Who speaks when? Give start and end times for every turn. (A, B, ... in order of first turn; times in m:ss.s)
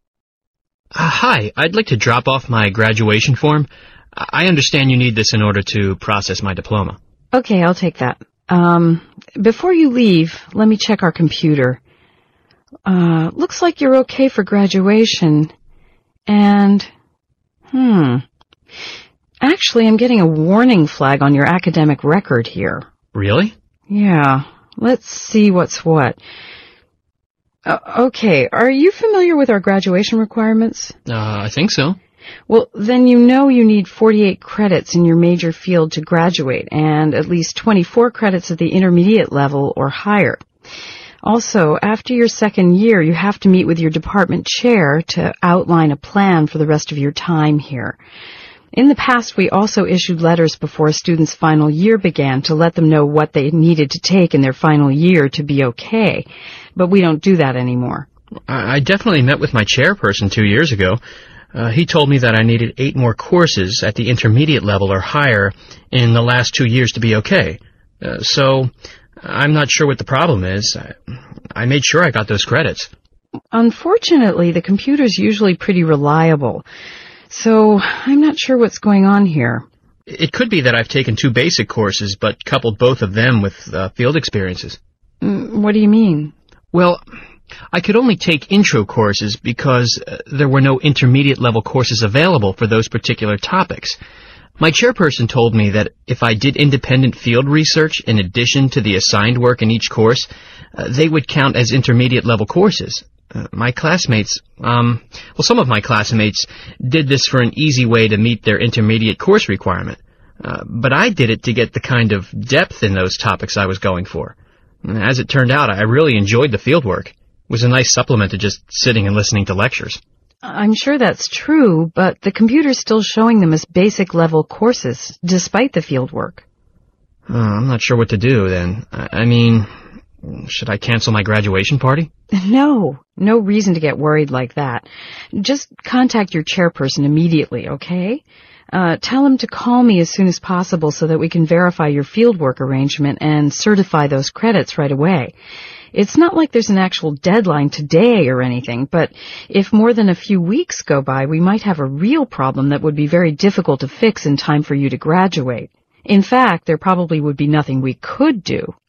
0:00.9-0:07.0 A
0:07.3-0:11.8 B
0:12.8-0:15.5 B
0:16.3-0:16.9 B
0:17.7-0:18.2 B
0:19.4-0:22.8 B
0:23.1-0:23.5 A
0:23.9-0:26.2 B
0:27.6-0:30.9 B
0:31.0-0:32.0 A
0:32.5-0:40.4 B
0:41.2-0:48.0 B
0:48.7-0:58.0 B
0:58.5-1:01.0 A
1:01.5-1:08.7 A
1:09.2-1:10.9 A
1:11.5-1:12.9 A
1:13.5-1:16.6 B
1:17.3-1:19.6 B
1:20.1-1:24.8 A
1:25.2-1:26.3 B
1:26.7-1:27.0 A
1:27.7-1:34.0 A
1:34.6-2:00.0 A
2:00.4-2:06.4 B
2:07.3-2:09.7 A
2:10.2-2:12.1 A
2:12.3-2:25.3 B
2:25.9-2:38.7 B